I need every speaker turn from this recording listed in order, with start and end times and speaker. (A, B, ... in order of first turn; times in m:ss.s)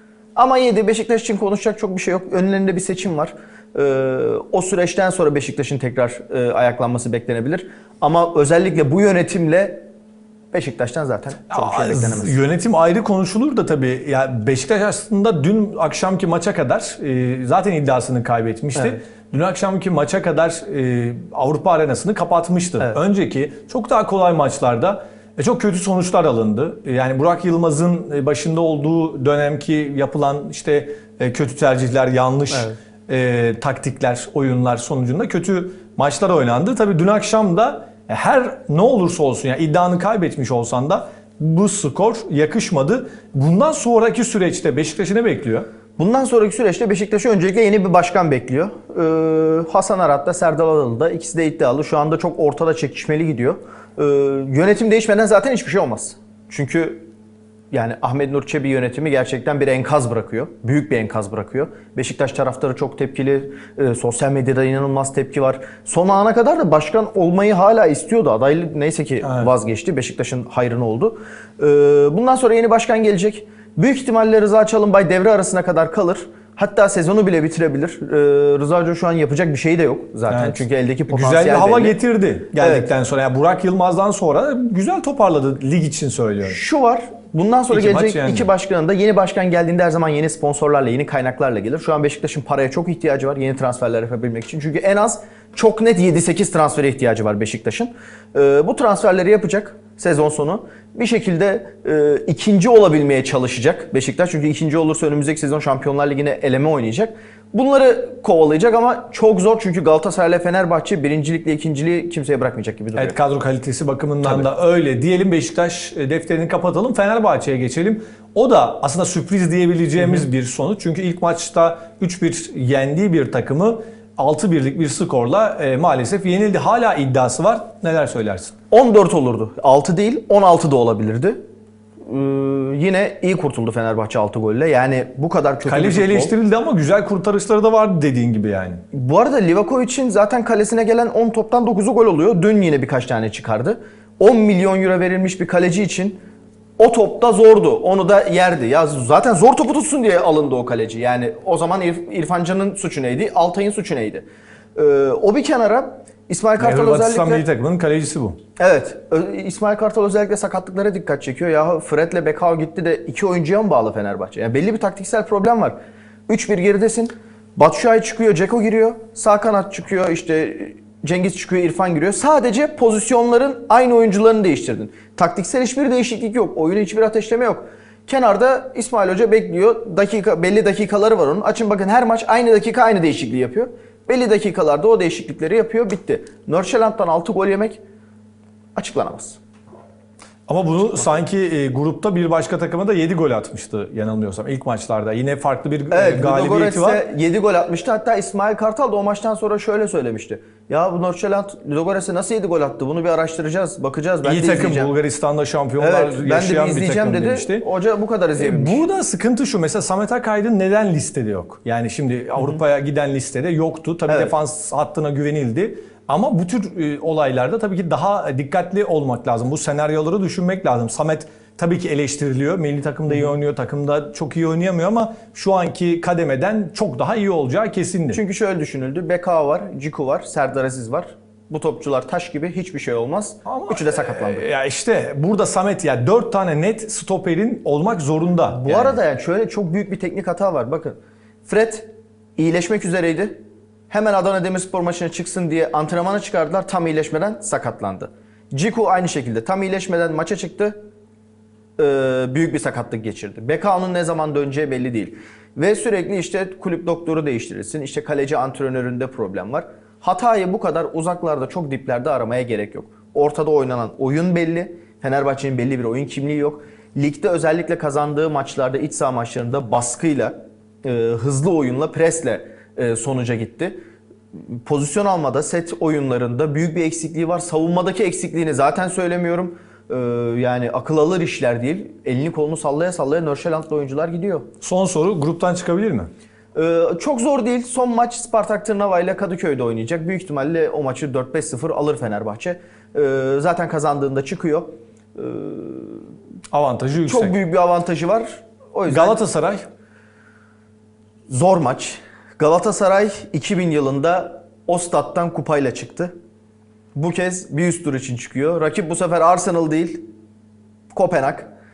0:00.4-0:09.8 A
0:10.5-0:12.4 A
0:11.5-0:45.6 B
0:46.0-0:57.0 A
0:57.7-1:22.0 A
1:20.3-1:26.6 B
1:22.5-1:22.9 A
1:26.4-1:53.2 A
1:27.7-1:28.5 B
1:53.0-2:08.5 B
2:08.7-2:11.4 A
2:12.0-2:16.3 A
2:15.7-2:18.8 B
2:18.9-2:26.2 A
2:26.8-2:37.4 A
2:36.6-2:38.4 B
2:38.6-2:45.8 A
2:46.3-3:07.8 A
3:08.8-3:09.4 A
3:10.5-3:17.0 B
3:15.9-3:24.9 A
3:24.2-3:27.6 B
3:25.8-3:28.8 A
3:28.4-3:48.2 B
3:32.4-3:32.6 A
3:34.1-3:34.3 A
3:48.1-3:54.4 A
3:53.4-3:59.0 B
3:58.5-4:10.8 A
4:11.8-4:33.8 A
4:34.3-4:44.5 A
4:44.6-4:46.1 B
4:46.5-4:56.1 A
4:56.5-4:57.3 B
4:57.0-4:59.2 A
4:58.9-4:59.6 B
5:01.3-5:06.1 A
5:06.9-5:10.0 A
5:10.9-5:11.5 A